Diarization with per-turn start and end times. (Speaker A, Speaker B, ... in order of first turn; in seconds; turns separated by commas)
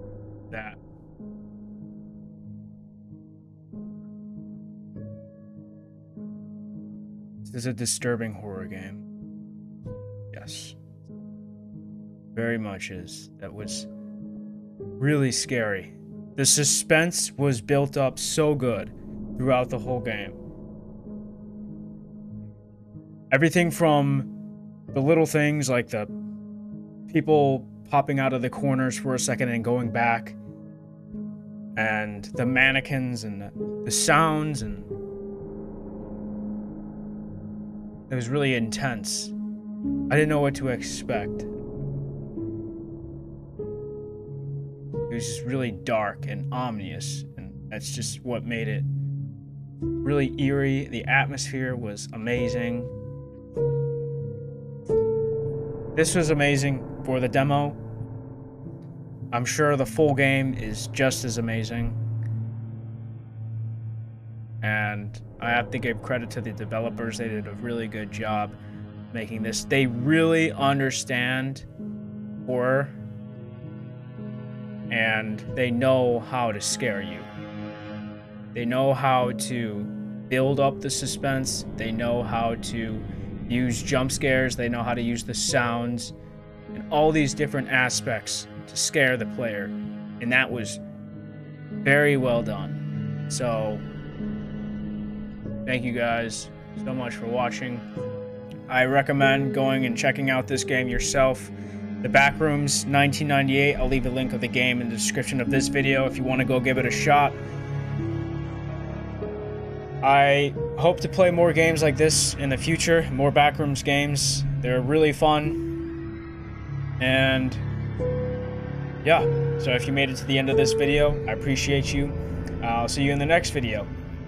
Speaker A: 0.5-0.8, Speaker A: 7.4-9.0, Speaker A: 10.3-10.8, Speaker A: 12.3-13.9, Speaker A: 15.0-20.4, Speaker A: 23.3-24.3, Speaker A: 24.9-26.1, Speaker A: 27.1-30.4, Speaker A: 31.8-34.9, Speaker A: 38.1-39.3, Speaker A: 40.1-41.5, Speaker A: 45.1-48.9, Speaker A: 50.0-52.9, Speaker A: 55.9-57.8, Speaker A: 59.3-62.0, Speaker A: 64.6-68.6, Speaker A: 69.1-71.7, Speaker A: 72.4-72.9, Speaker A: 74.9-77.3, Speaker A: 78.5-86.1, Speaker A: 86.7-90.8, Speaker A: 91.8-93.8, Speaker A: 95.7-97.9, Speaker A: 98.7-107.4, Speaker A: 110.0-115.6, Speaker A: 117.0-117.6, Speaker A: 119.0-123.9